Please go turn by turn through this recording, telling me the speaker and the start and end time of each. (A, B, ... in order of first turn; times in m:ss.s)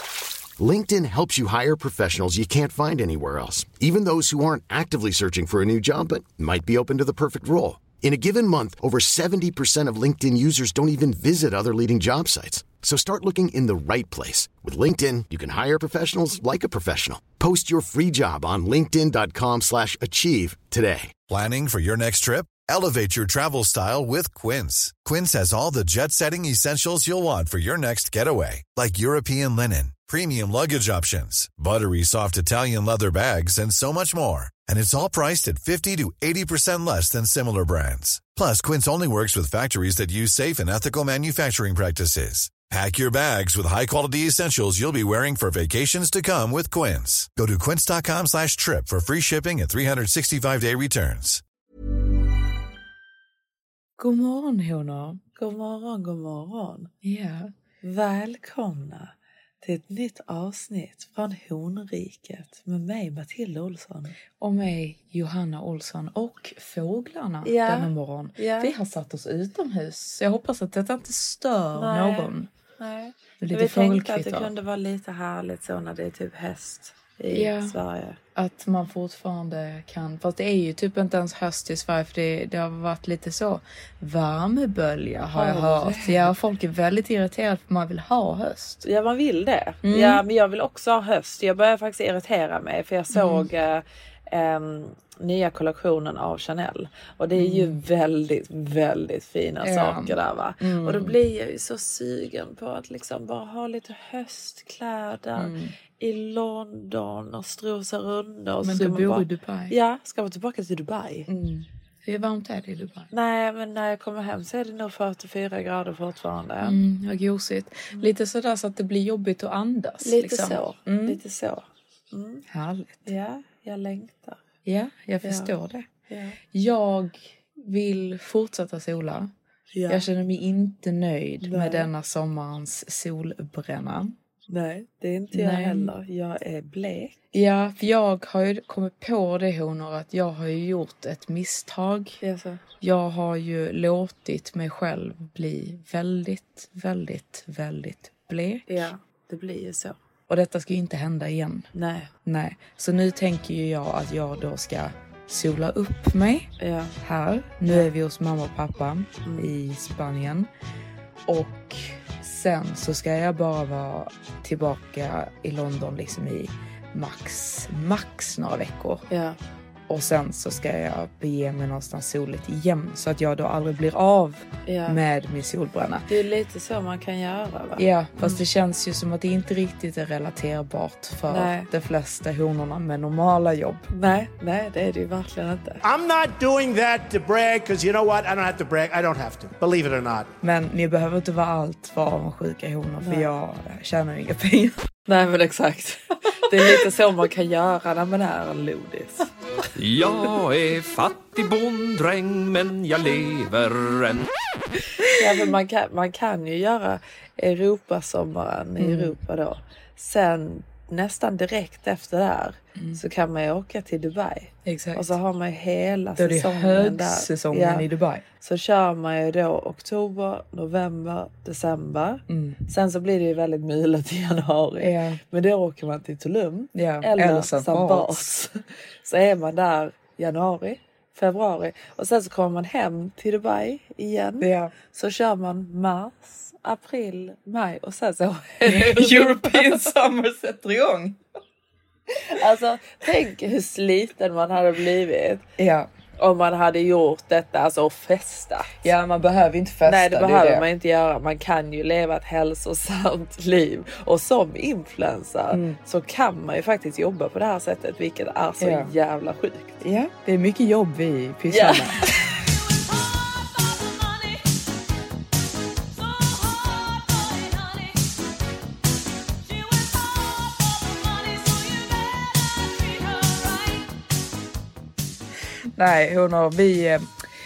0:00.6-0:21.1 A
0:21.3-0:51.4 B
0:54.0-0:55.2 C
0:55.4-0:56.9 D
0:57.0-0:57.5 C
0:57.8-1:04.2 D
1:04.4-1:12.5 C
1:07.4-1:08.7 D
1:11.7-1:18.2 D
1:13.4-1:14.5 C
1:17.3-1:17.8 C
1:18.3-1:28.8 C
1:25.3-1:26.3 D
1:28.8-1:51.3 D
1:29.8-1:30.2 C
1:33.1-1:33.5 C
1:37.4-1:37.8 C
1:39.6-1:41.2 C
1:45.4-1:45.7 C
1:48.6-1:49.8 C
1:51.3-1:53.1 C
1:53.1-1:56.8 D
1:56.6-2:01.2 C
2:00.0-2:02.4 D
2:02.5-2:03.1 C
2:03.0-2:04.4 D
2:04.6-2:05.9 C
2:05.2-2:05.5 D
2:06.1-2:06.4 D
2:06.5-2:09.3 C
2:09.7-2:10.0 D
2:09.9-2:14.2 C
2:11.4-2:11.9 D
2:14.5-2:17.2 D
2:15.3-2:15.9 C
2:17.3-2:22.2 C
2:22.2-2:22.6 D
2:22.8-2:28.8 C
2:28.7-2:30.0 D
2:30.3-2:31.7 C
2:31.7-2:32.1 D
2:32.2-2:36.5 C
2:36.6-2:37.0 D
2:37.0-2:40.5 C
2:39.2-2:39.5 D
2:41.3-2:49.0 C
2:49.1-2:49.4 D
2:49.9-2:56.1 C
2:54.6-2:55.0 D
2:56.1-2:58.4 D
2:57.8-3:03.9 C
3:01.3-3:01.7 D
3:03.9-3:05.8 D
3:05.8-3:10.3 E
3:10.4-3:14.8 C
3:13.0-3:13.3 D
3:15.1-3:19.3 D
3:19.8-3:24.3 F
3:25.2-3:37.8 D
3:28.8-3:29.2 C
3:34.6-3:35.1 C
3:36.2-3:38.2 C
3:38.4-3:59.9 D
3:42.3-3:42.6 C
3:44.8-3:45.2 C
3:46.7-3:48.3 C
3:54.4-3:54.7 C
3:58.6-4:01.2 C
4:02.2-4:05.4 D
4:05.6-4:05.9 C
4:06.2-4:08.9 D
4:08.8-4:10.7 C
4:09.8-4:19.8 D
4:15.5-4:15.8 C
4:18.6-4:18.9 C
4:19.8-4:22.1 C
4:21.5-4:22.4 D
4:23.8-4:24.2 D
4:26.2-4:27.8 D
4:31.2-4:31.9 D
4:32.8-4:33.4 D
4:35.8-4:37.1 C